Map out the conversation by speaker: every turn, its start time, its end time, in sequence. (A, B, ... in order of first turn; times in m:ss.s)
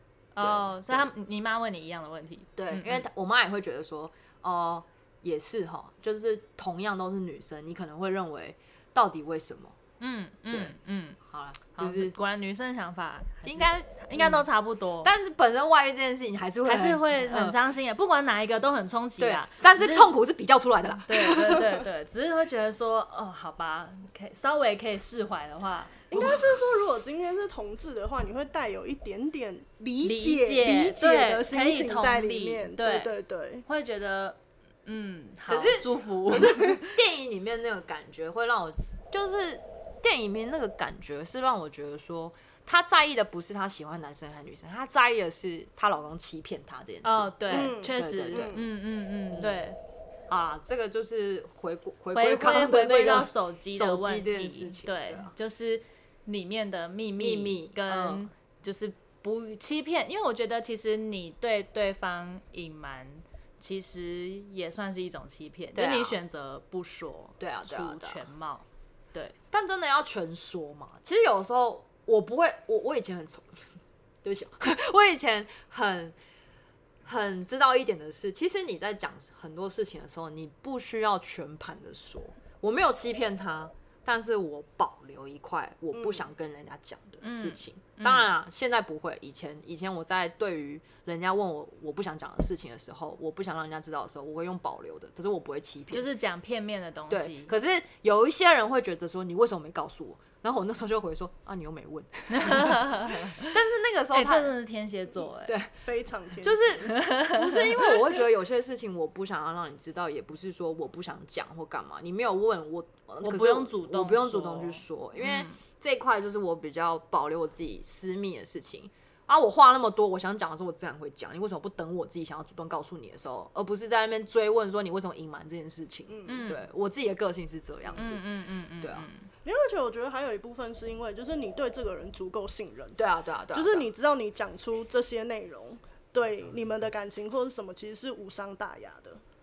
0:00.4-0:03.0 A
0:00.4-0:01.1 B
0:02.6-0:09.8 B
0:10.0-0:11.2 A
0:10.5-0:12.1 B
0:11.7-0:15.1 A
0:13.4-0:14.5 B
0:15.0-0:17.6 B
0:16.6-0:20.1 A
0:19.2-0:21.7 B
0:21.1-0:26.4 A
0:26.1-0:33.6 C
0:30.0-0:33.1 A
0:33.7-0:37.0 A
0:35.5-0:48.6 B
0:47.0-0:49.8 A
0:47.5-0:48.6 C
0:49.3-0:49.7 B
0:50.3-0:55.3 B
0:52.1-1:09.4 A
0:57.2-0:58.2 B
1:05.7-1:06.2 B
1:07.4-1:08.2 B
1:09.5-1:16.2 B
1:17.0-1:36.1 B
1:25.9-1:26.2 C
1:27.2-1:28.3 A
1:35.9-1:37.5 A
1:37.1-1:44.5 B
1:42.3-1:43.5 A
1:44.1-1:45.6 A
1:45.5-1:45.7 B
1:45.8-1:46.9 C
1:46.4-2:08.2 B
1:46.9-1:47.9 A
1:53.2-1:55.6 A
2:06.1-2:06.6 C
2:06.3-2:06.6 A
2:08.0-2:09.3 A
2:08.8-2:09.1 B
2:09.4-2:13.0 C
2:13.0-2:13.9 B
2:13.5-2:19.2 C